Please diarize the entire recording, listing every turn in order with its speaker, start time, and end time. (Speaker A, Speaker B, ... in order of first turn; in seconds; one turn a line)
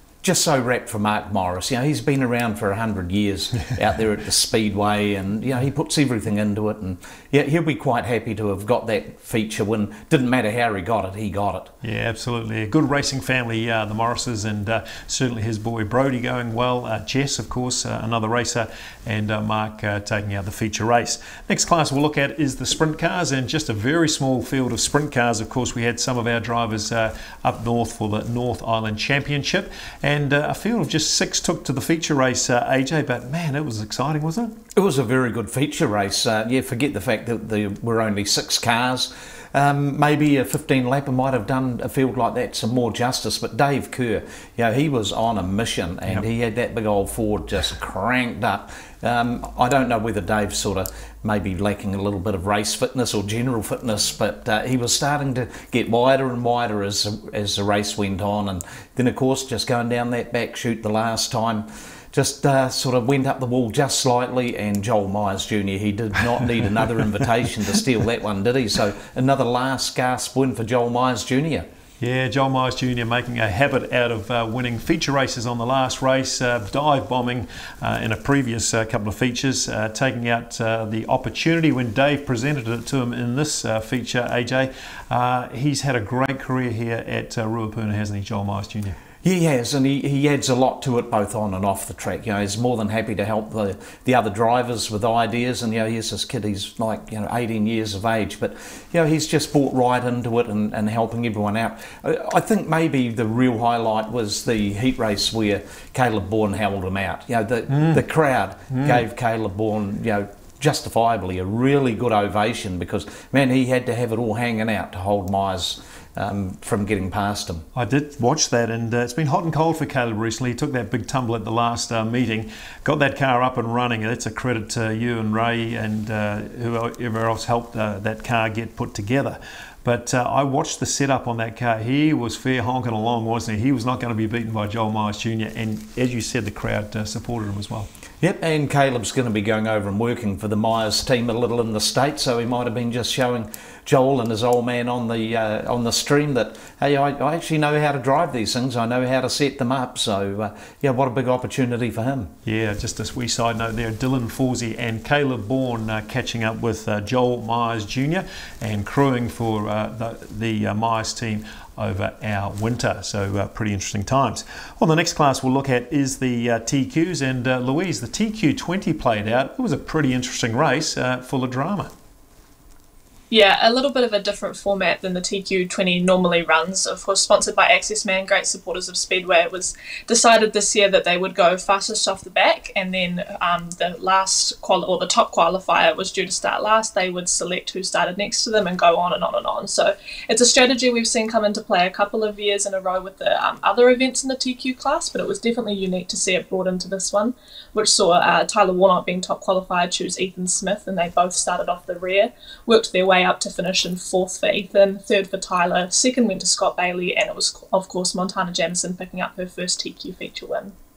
Speaker A: 0.2-11.7
Speaker B: 11.8-34.6
Speaker A: 34.7-71.7
Speaker B: 72.0-89.0
Speaker A: 89.2-117.7
Speaker B: 107.7-108.0
Speaker B: 108.7-109.0
Speaker B: 117.7-137.9
Speaker A: 138.2-152.3
Speaker B: 152.4-171.9
Speaker C: 173.3-210.7